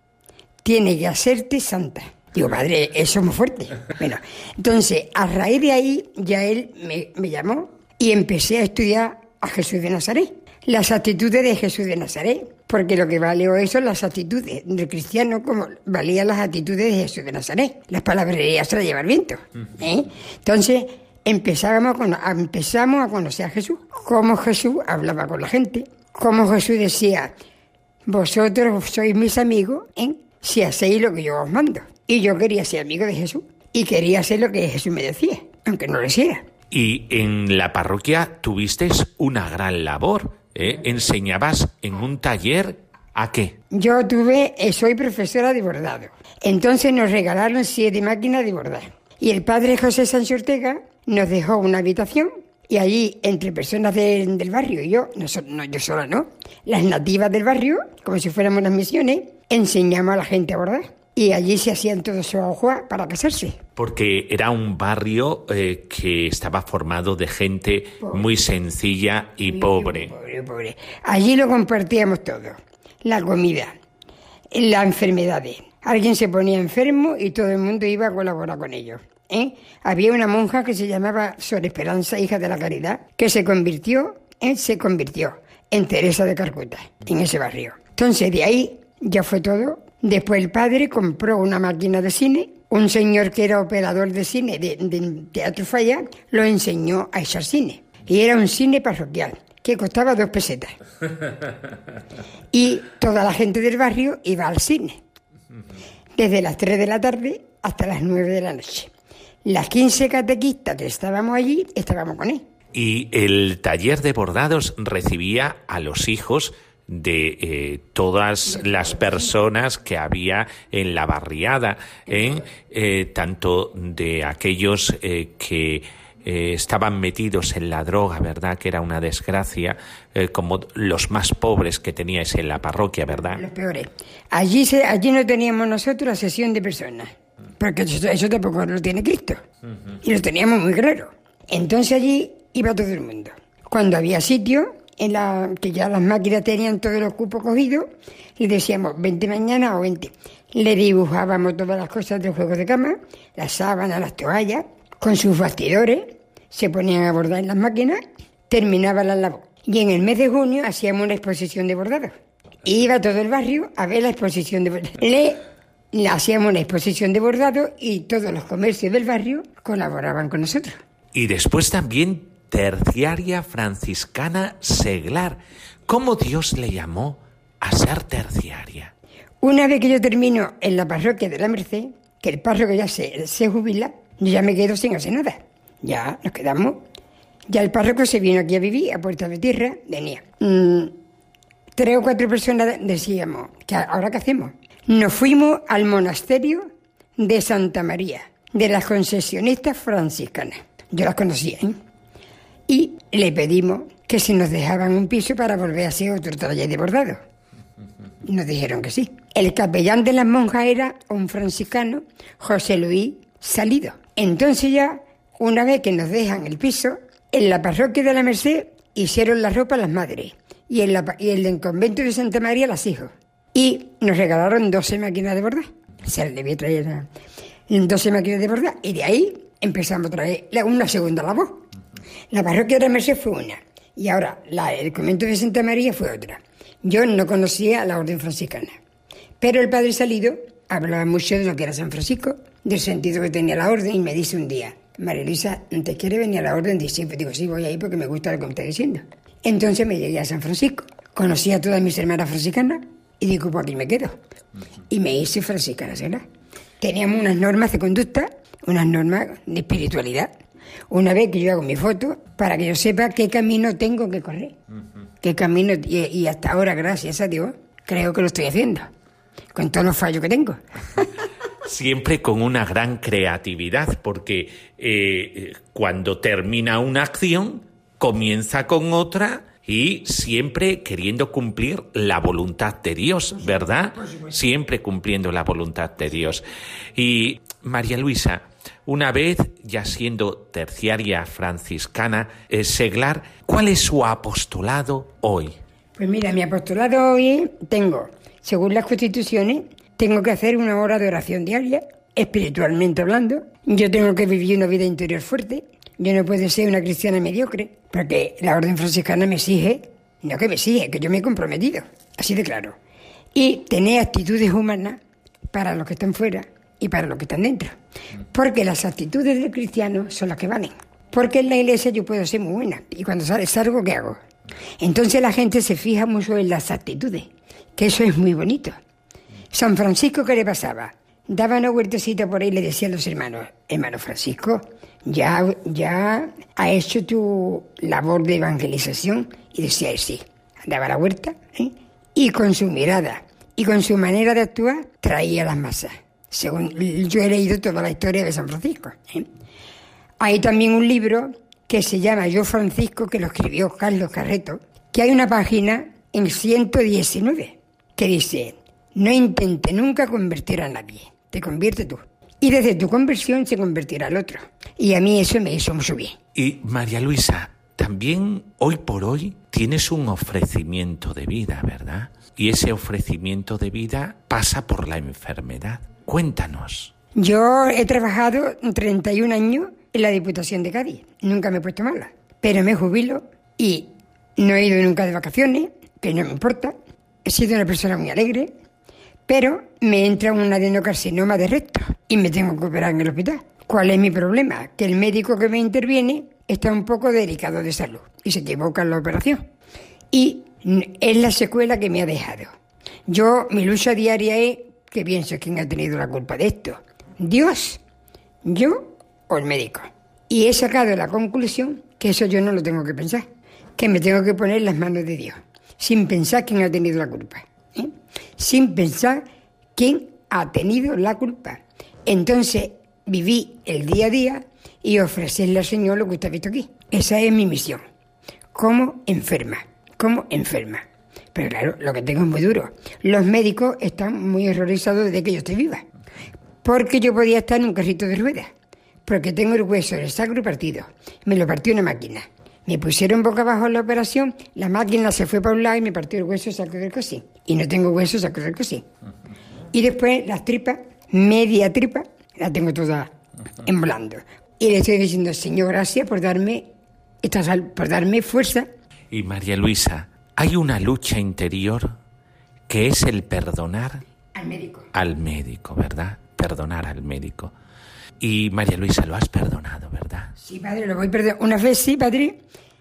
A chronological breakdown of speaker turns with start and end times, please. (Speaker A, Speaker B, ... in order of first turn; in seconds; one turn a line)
Speaker A: 0.6-27.3
Speaker A: 28.1-36.4
Speaker B: 36.7-43.6
Speaker A: 43.7-63.6
Speaker B: 63.8-70.1
Speaker A: 69.5-73.7
Speaker A: 74.5-100.8
Speaker A: 102.5-105.0
Speaker A: 106.2-108.9
Speaker A: 109.5-112.4
Speaker B: 112.7-133.4
Speaker A: 118.5-119.3
Speaker A: 133.3-139.4
Speaker A: 140.0-162.1
Speaker A: 162.7-170.8
Speaker B: 171.1-178.9
Speaker A: 179.4-186.8
Speaker A: 187.5-190.9
Speaker A: 191.8-201.8
Speaker A: 202.7-207.2
Speaker A: 208.2-227.1
Speaker A: 227.7-231.6
Speaker A: 232.3-238.8
Speaker A: 239.4-254.2
Speaker A: 254.9-256.2
Speaker A: 256.8-260.3
Speaker A: 260.9-264.6
Speaker A: 265.2-268.9
Speaker A: 269.5-271.1
Speaker B: 271.6-286.4
Speaker A: 283.5-284.3
Speaker B: 287.0-295.6
Speaker A: 296.0-312.8
Speaker A: 313.3-315.0
Speaker A: 315.5-317.7
Speaker A: 318.3-324.2
Speaker A: 324.8-328.8
Speaker A: 329.5-349.3
Speaker A: 350.2-366.2
Speaker B: 366.4-376.9
Speaker A: 377.2-388.5
Speaker A: 389.3-399.4
Speaker A: 400.1-402.5
Speaker A: 403.1-407.8
Speaker A: 408.4-413.2
Speaker A: 413.8-419.2
Speaker A: 419.8-427.8
Speaker A: 428.5-435.9
Speaker A: 436.6-438.5
Speaker A: 439.1-448.9
Speaker A: 449.7-453.1
Speaker A: 453.6-456.7
Speaker A: 457.2-458.7
Speaker B: 459.1-461.9
Speaker B: 462.7-464.0
Speaker A: 464.4-464.9
Speaker B: 464.9-467.5
Speaker B: 468.2-470.3
Speaker A: 470.4-472.4